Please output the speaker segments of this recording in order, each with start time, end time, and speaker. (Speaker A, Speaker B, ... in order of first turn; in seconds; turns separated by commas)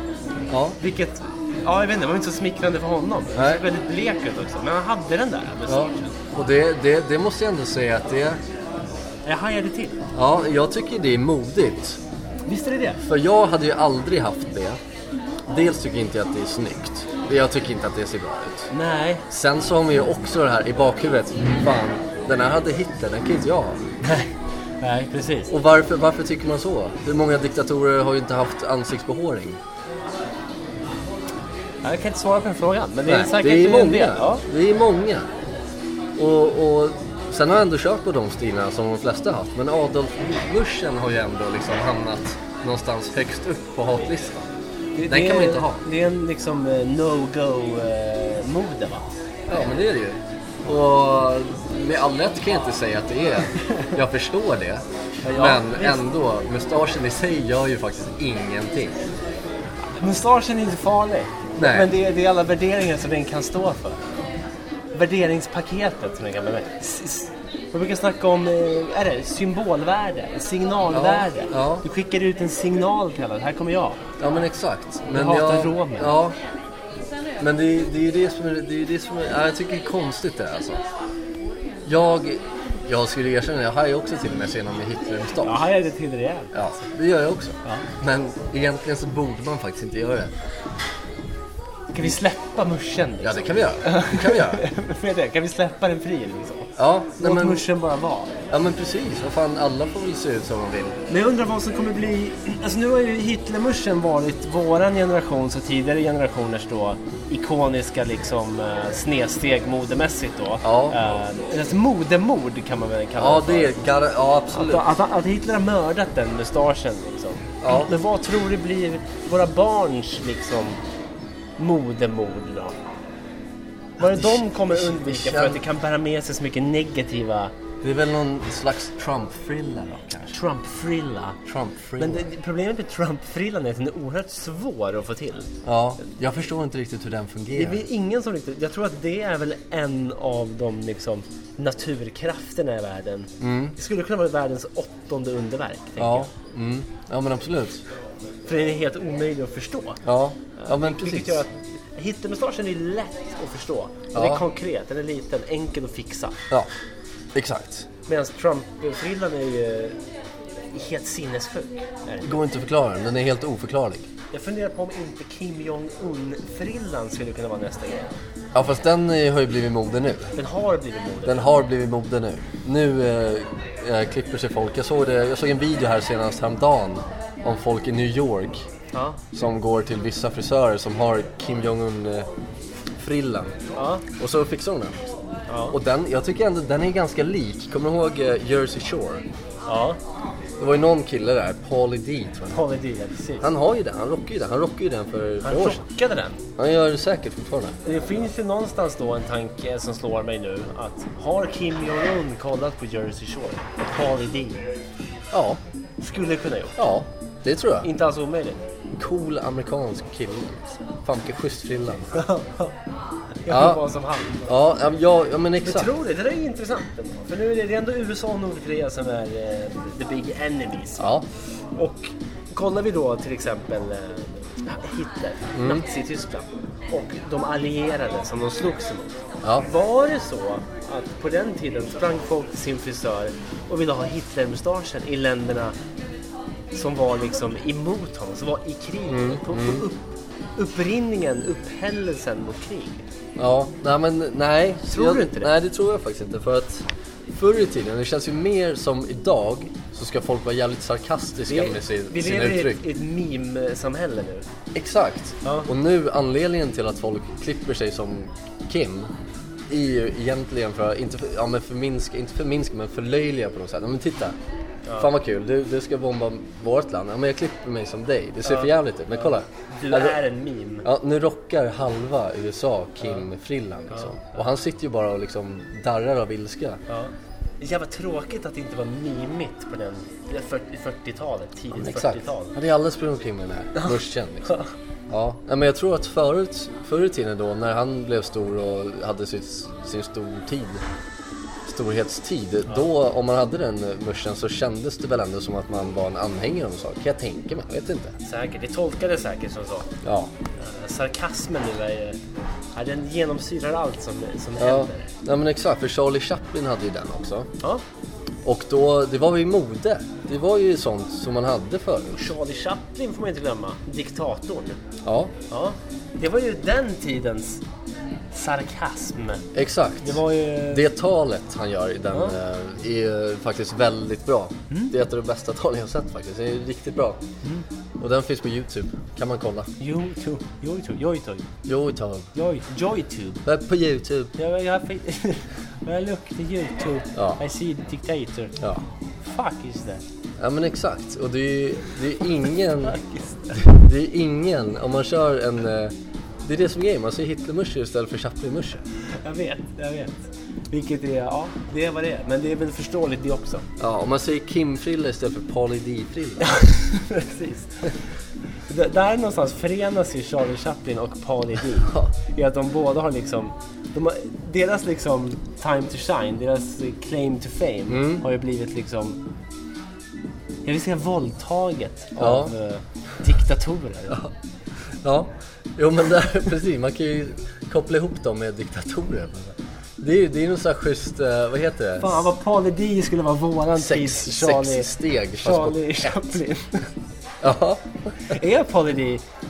Speaker A: 0.5-0.8, Speaker B: 0.8-6.2, Speaker A: 3.4-3.6, Speaker A: 5.7-8.4, Speaker B: 9.3-10.0, Speaker A: 10.2-12.0, Speaker B: 12.5-13.0, Speaker A: 13.0-14.8, Speaker A: 15.5-18.7, Speaker B: 18.7-19.3, Speaker A: 19.3-23.8, Speaker B: 24.0-25.5, Speaker A: 25.5-29.6, Speaker B: 31.8-34.4, Speaker A: 33.1-35.3, Speaker A: 36.2-44.5, Speaker B: 45.0-49.1, Speaker A: 45.1-45.8, Speaker A: 49.5-59.0, Speaker B: 55.2-56.0, Speaker B: 60.0-64.0, Speaker A: 61.6-61.9, Speaker B: 64.9-74.0, Speaker A: 70.9-71.8, Speaker A: 74.2-76.3, Speaker B: 75.1-76.2, Speaker A: 77.4-80.8, Speaker A: 81.8-85.7, Speaker B: 85.4-86.6, Speaker A: 86.5-90.3, Speaker B: 91.9-98.3, Speaker A: 93.2-94.6, Speaker A: 96.8-97.7, Speaker A: 98.5-101.0, Speaker B: 101.1-113.8, Speaker A: 110.6-111.0, Speaker A: 113.2-114.9, Speaker B: 114.5-120.8, Speaker A: 117.6-117.9, Speaker B: 121.6-122.8, Speaker A: 124.0-125.6, Speaker B: 124.0-127.5, Speaker A: 127.8-130.4, Speaker B: 130.3-131.4, Speaker A: 131.4-132.3, Speaker B: 132.0-135.5, Speaker A: 135.7-137.8, Speaker B: 137.5-146.3, Speaker A: 143.4-143.8, Speaker A: 146.0-147.8, Speaker B: 148.5-150.0, Speaker A: 150.0-151.4, Speaker B: 150.6-156.4, Speaker A: 154.1-154.4, Speaker A: 157.3-157.9, Speaker B: 158.1-160.0, Speaker B: 160.7-162.3, Speaker A: 162.2-164.1, Speaker B: 164.3-168.1, Speaker A: 168.5-170.3, Speaker B: 170.4-171.5, Speaker A: 171.2-178.7, Speaker B: 178.9-179.2, Speaker A: 179.3-182.3, Speaker A: 183.0-185.2, Speaker B: 183.8-184.1, Speaker B: 185.5-185.8, Speaker A: 185.7-189.2, Speaker B: 189.7-190.0, Speaker A: 190.6-192.7, Speaker B: 192.5-193.5, Speaker A: 193.4-195.8, Speaker B: 195.4-196.4, Speaker A: 196.6-197.8, Speaker B: 197.8-204.6, Speaker A: 205.3-205.6, Speaker B: 206.0-206.8, Speaker A: 206.8-207.9, Speaker B: 207.8-208.6, Speaker A: 209.0-212.2, Speaker B: 212.1-212.7, Speaker B: 213.4-214.3, Speaker A: 213.5-213.8, Speaker A: 214.5-215.9, Speaker B: 215.6-221.1, Speaker A: 221.0-221.3, Speaker B: 221.8-235.8, Speaker A: 225.6-225.8, Speaker B: 236.7-243.0, Speaker A: 239.1-239.9, Speaker A: 243.4-252.9, Speaker B: 244.9-245.5, Speaker B: 251.5-254.5, Speaker A: 254.7-259.1, Speaker B: 255.4-255.7, Speaker A: 259.7-264.4, Speaker B: 264.9-265.1, Speaker A: 265.0-270.2, Speaker B: 268.4-270.9, Speaker A: 270.8-276.8, Speaker B: 276.9-282.6, Speaker A: 281.8-284.6, Speaker B: 283.8-284.7, Speaker A: 285.1-290.8, Speaker A: 291.7-298.2, Speaker B: 298.2-299.9, Speaker A: 300.0-300.3, Speaker B: 300.6-302.2, Speaker B: 302.7-305.1, Speaker A: 304.6-307.5, Speaker A: 308.4-312.2, Speaker B: 312.1-314.8, Speaker A: 315.0-315.3, Speaker B: 315.5-317.6, Speaker B: 318.3-319.5, Speaker A: 319.5-327.2, Speaker B: 320.0-320.9, Speaker B: 322.1-322.4, Speaker A: 328.0-329.7, Speaker B: 329.8-331.5, Speaker A: 331.6-332.3, Speaker B: 332.3-333.4, Speaker A: 333.4-334.3, Speaker B: 334.4-338.6, Speaker A: 337.1-337.4, Speaker B: 339.2-340.0, Speaker A: 340.4-343.0, Speaker B: 342.8-343.6, Speaker A: 343.5-348.8, Speaker B: 349.2-353.7, Speaker A: 353.8-356.6, Speaker B: 356.4-358.0, Speaker B: 358.7-369.2, Speaker A: 367.9-368.2, Speaker B: 370.6-374.2, Speaker A: 372.2-372.5, Speaker A: 375.0-382.3, Speaker B: 382.0-386.9, Speaker A: 383.8-386.1, Speaker A: 387.4-388.4, Speaker B: 388.2-389.2